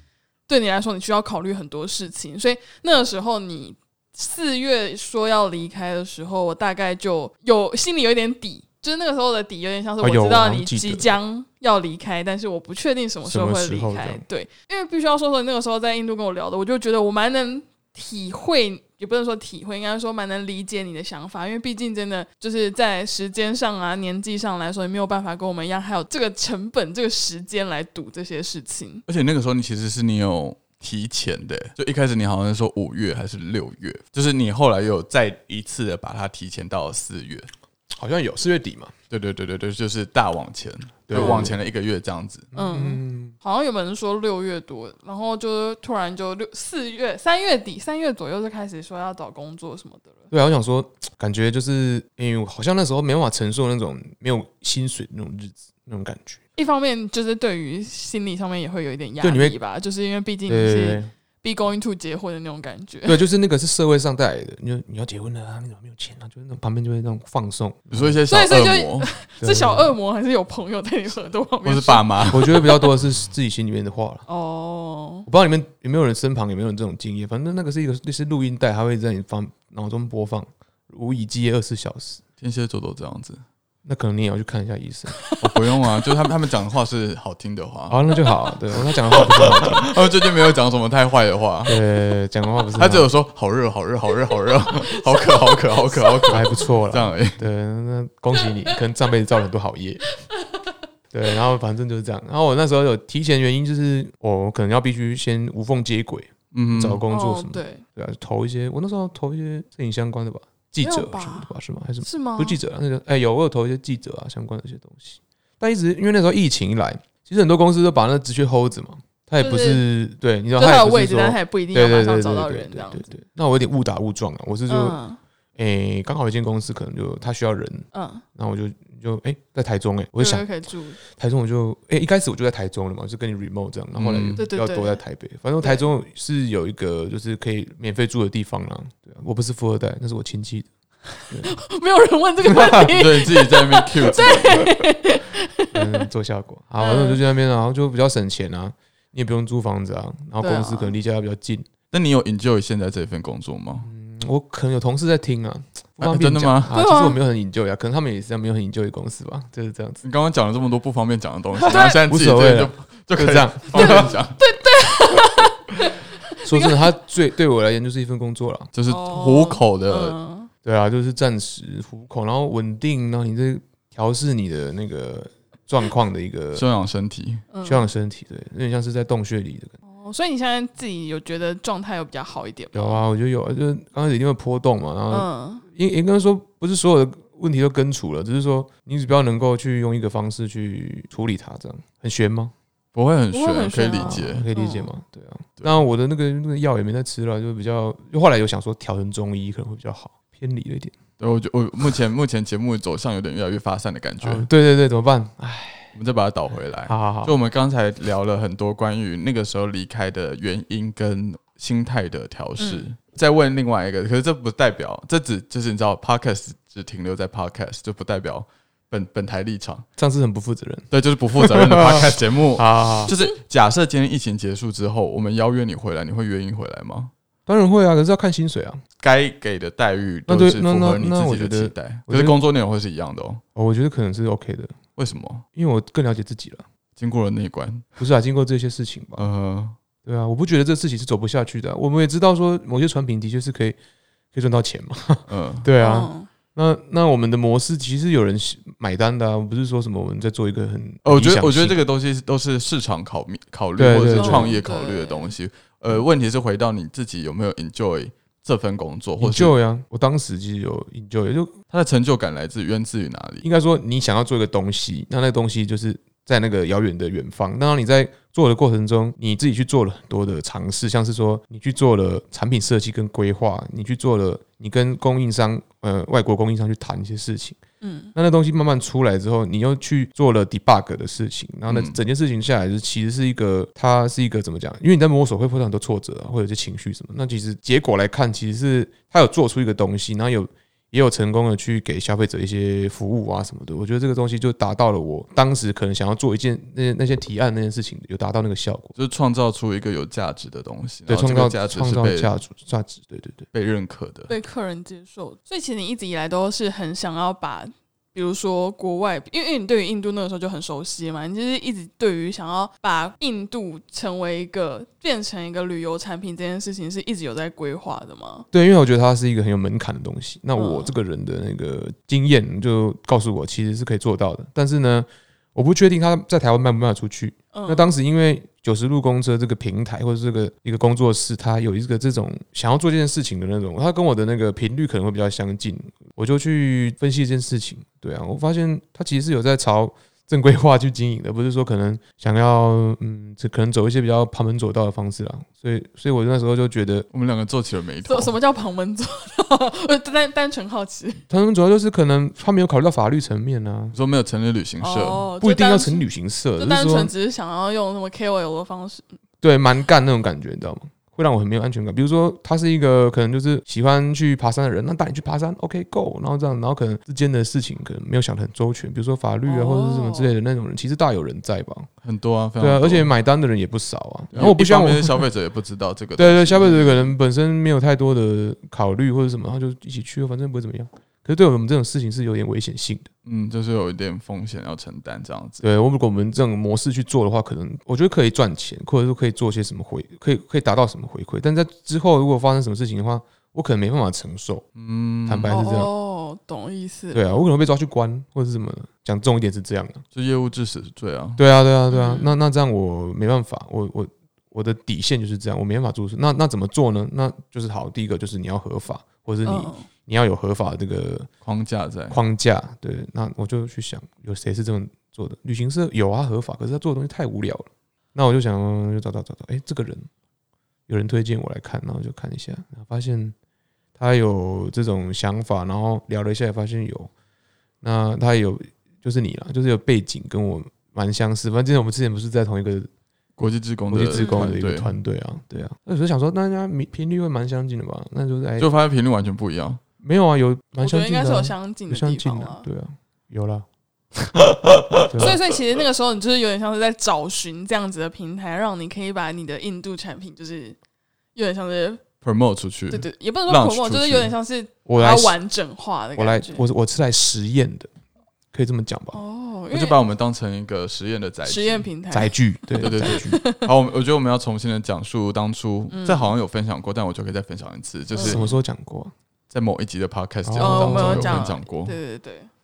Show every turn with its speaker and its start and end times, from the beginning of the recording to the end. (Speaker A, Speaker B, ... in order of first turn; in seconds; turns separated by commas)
Speaker A: 0.5-29.0, Speaker B: 10.0-11.1, Speaker B: 13.2-14.2, Speaker C: 29.1-37.5, Speaker B: 37.9-38.9, Speaker C: 39.1-42.5, Speaker B: 41.1-41.6, Speaker A: 41.1-41.5, Speaker B: 42.5-43.4, Speaker A: 42.5-50.3, Speaker B: 50.3-56.4, Speaker A: 56.6-63.2, Speaker B: 59.2-59.6, Speaker B: 60.5-61.1, Speaker B: 63.1-68.2, Speaker C: 67.9-69.1, Speaker A: 68.3-72.9, Speaker B: 69.4-69.9, Speaker C: 71.6-72.6, Speaker B: 72.3-74.2, Speaker A: 74.3-75.3, Speaker B: 75.3-82.2, Speaker C: 82.4-83.4, Speaker B: 83.8-85.2, Speaker C: 85.4-88.0, Speaker B: 87.9-89.9, Speaker C: 89.1-91.8, Speaker B: 91.7-93.1, Speaker C: 92.8-97.4, Speaker A: 94.8-96.5, Speaker B: 96.3-100.0, Speaker A: 98.4-98.8, Speaker B: 101.1-125.0, Speaker C: 106.5-107.0, Speaker A: 107.1-107.8, Speaker A: 110.8-111.5, Speaker A: 112.0-112.6, Speaker A: 119.4-119.8, Speaker A: 120.6-123.1, Speaker A: 124.7-125.2, Speaker B: 125.6-130.4, Speaker A: 127.9-128.2, Speaker A: 130.2-131.0, Speaker B: 131.0-140.7, Speaker C: 133.9-134.4, Speaker A: 134.4-135.0, Speaker A: 135.6-135.9, Speaker A: 141.3-146.1, Speaker B: 142.4-142.9, Speaker C: 142.9-144.7, Speaker B: 145.7-151.7, Speaker A: 146.8-147.2, Speaker A: 150.4-150.9, Speaker C: 151.9-153.9, Speaker B: 153.8-160.0, Speaker C: 156.0-156.7, Speaker A: 156.7-157.2, Speaker C: 160.0-164.4, Speaker B: 161.6-164.2, Speaker A: 161.7-162.0, Speaker A: 163.7-166.9, Speaker B: 166.4-168.7, Speaker C: 168.7-170.2, Speaker A: 168.9-170.5, Speaker B: 170.6-176.6, Speaker C: 176.5-177.4, Speaker A: 177.5-177.9, Speaker B: 177.6-179.7, Speaker A: 179.9-183.0, Speaker B: 182.7-192.5, Speaker A: 185.1-185.6, Speaker C: 192.9-194.5, Speaker A: 193.3-194.9, Speaker B: 193.9-200.9, Speaker C: 201.2-204.5, Speaker B: 204.2-205.9, Speaker C: 205.9-219.9, Speaker B: 206.9-207.3, Speaker A: 212.6-212.9, Speaker B: 220.0-223.1, Speaker C: 220.9-227.1, Speaker B: 227.4-228.8, Speaker C: 229.0-233.4, Speaker B: 230.3-232.4, Speaker B: 233.6-234.8, Speaker C: 234.9-235.4, Speaker B: 235.6-236.6, Speaker C: 237.0-237.9, Speaker B: 238.0-239.3, Speaker C: 239.2-239.8, Speaker B: 240.0-243.8, Speaker B: 244.3-251.8, Speaker C: 245.3-245.7, Speaker A: 245.8-246.3, Speaker C: 251.0-259.6, Speaker B: 253.8-254.5, Speaker A: 254.2-255.3, Speaker B: 259.2-261.5, Speaker C: 261.7-263.4, Speaker B: 263.4-277.6, Speaker A: 277.8-278.1, Speaker B: 278.1-298.9, Speaker C: 281.7-282.0, Speaker C: 298.9-302.3, Speaker B: 301.1-303.5, Speaker C: 303.5-304.3, Speaker A: 304.3-318.4, Speaker B: 318.5-347.1, Speaker A: 320.6-320.9, Speaker A: 327.5-327.9, Speaker C: 347.1-348.3, Speaker A: 348.1-351.2, Speaker B: 351.3-353.9, Speaker C: 353.9-355.2, Speaker A: 354.8-356.1, Speaker B: 355.4-357.1, Speaker A: 356.6-359.1, Speaker B: 359.4-371.9, Speaker A: 369.4-370.3, Speaker C: 372.0-373.1, Speaker B: 372.6-375.2, Speaker C: 374.3-376.8, Speaker B: 376.2-383.1, Speaker A: 376.6-377.1, Speaker C: 383.2-385.6, Speaker B: 385.6-394.6, Speaker C: 394.8-395.6, Speaker B: 395.3-395.9, Speaker A: 395.5-397.2, Speaker B: 397.1-400.0, Speaker C: 400.1-401.4, Speaker B: 401.4-411.3, Speaker A: 401.9-402.3, Speaker A: 409.4-409.9, Speaker C: 411.4-412.2, Speaker B: 412.1-420.1, Speaker B: 420.9-423.4, Speaker B: 424.0-427.1, Speaker B: 427.8-432.9, Speaker C: 433.4-434.9, Speaker B: 433.9-438.7, Speaker A: 434.1-434.5, Speaker C: 438.6-439.8, Speaker B: 440.0-443.6, Speaker A: 440.8-442.6, Speaker C: 444.3-445.1, Speaker B: 445.1-445.4, Speaker A: 445.1-450.8, Speaker A: 451.4-452.0, Speaker C: 452.2-454.3, Speaker A: 452.9-456.6, Speaker B: 454.9-455.4, Speaker B: 456.1-457.9, Speaker B: 458.5-459.2, Speaker A: 459.1-460.0, Speaker C: 459.7-461.9, Speaker A: 461.4-463.7, Speaker B: 462.1-463.4, Speaker C: 462.8-468.5, Speaker A: 465.9-466.4, Speaker A: 468.1-468.4, Speaker B: 468.2-469.1, Speaker C: 469.5-471.9, Speaker B: 470.4-471.5, Speaker A: 470.6-472.5